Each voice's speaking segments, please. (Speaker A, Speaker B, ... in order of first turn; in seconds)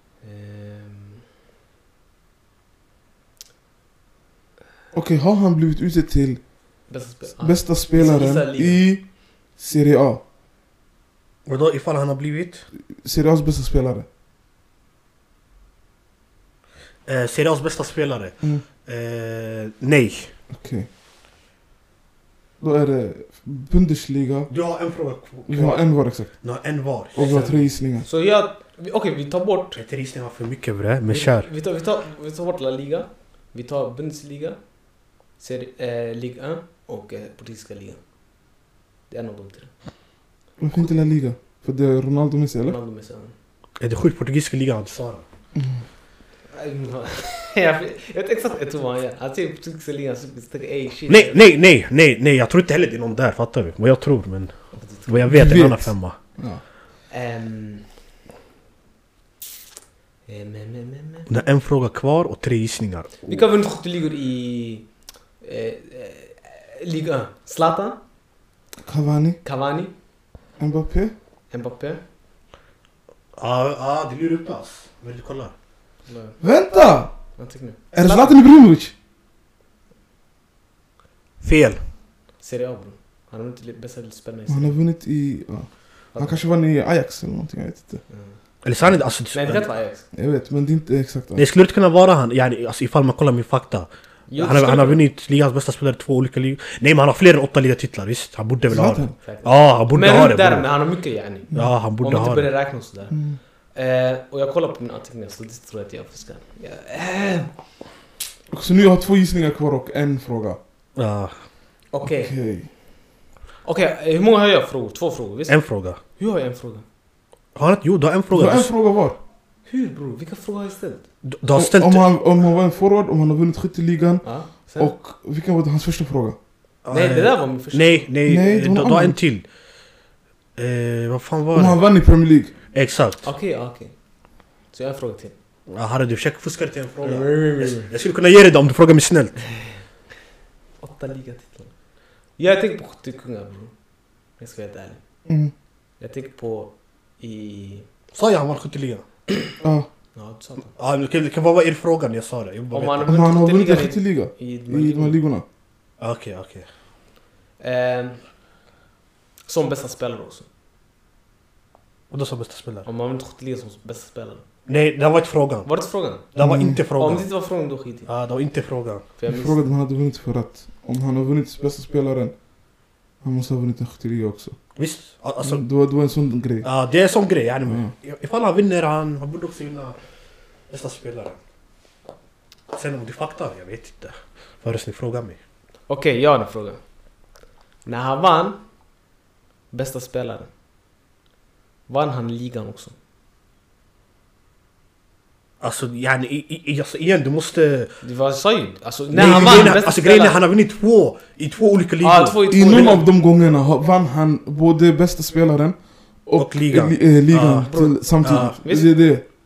Speaker A: 0.2-1.2, 6.9-8.8, 27.2-29.8, 31.1-34.6, 35.4-38.0, 39.1-39.7, 42.6-43.3, 46.5-51.4, 54.7-55.3, 57.1-57.9, 60.3-61.3, 63.2-64.9, 65.4-68.0, 69.4-69.9, 71.5-72.0, 76.1-76.4, 77.3-78.3, 82.4-84.8, 86.1-86.4, 88.1-88.3, 89.3-90.0, 94.3-95.0, 99.2-103.2, 103.7-107.5, 111.9-112.3, 113.6-116.8, 119.7-121.0, 124.2-124.9, 126.9-128.1, 133.2-133.9, 134.7-135.3, 137.0-137.9, 140.8-141.7, 142.4-143.7, 144.4-145.0, 146.0-147.9, 150.1-150.7, 152.7-155.2, 157.6-158.2, 159.5-160.4, 162.8-164.4, 165.7-166.3, 166.9-168.1, 169.2-169.7, 185.9-186.8, 187.8-188.6, 189.7-190.5, 191.9-192.9, 198.0-200.4, 202.0-203.0, 207.6-208.0, 208.6-208.9
Speaker B: 4.9-6.4, 7.3-10.2, 12.9-14.1, 20.5-20.9, 22.6-24.5, 25.5-26.4, 27.1-28.1, 40.6-42.8, 55.3-56.6, 68.8-69.4, 70.6-71.1, 76.4-77.2, 77.9-78.9, 84.5-88.0, 90.1-91.5, 98.7-99.1, 103.1-103.4, 108.5-110.6, 112.0-112.7, 118.3-119.2, 121.5-126.4, 128.2-129.2, 131.5-132.5, 145.3-145.5, 149.6-149.9, 153.1-155.4, 166.4-166.8, 169.3-172.3, 173.2-174.6, 175.4-176.7, 177.7-177.9, 199.1-199.8, 202.5-209.2
Speaker C: 11.4-12.7, 17.1-20.3, 24.5-27.6, 29.8-31.5, 43.8-45.2, 51.1-56.1, 61.3-63.2, 73.3-75.5, 81.4-81.8, 88.6-89.7, 91.4-100.7, 101.5-102.5, 111.0-111.4, 115.5-116.0, 117.5-118.7, 121.2-122.1, 126.8-129.4, 130.6-131.8, 132.7-133.2, 135.7-139.4, 148.1-149.0, 150.8-153.1, 156.0-156.7, 162.1-162.9, 164.7-165.7, 166.3-167.3, 168.1-169.0, 174.8-175.6, 176.6-180.0, 180.7-181.4, 182.7-185.4, 195.6-197.9, 199.1-202.9, 206.4-208.6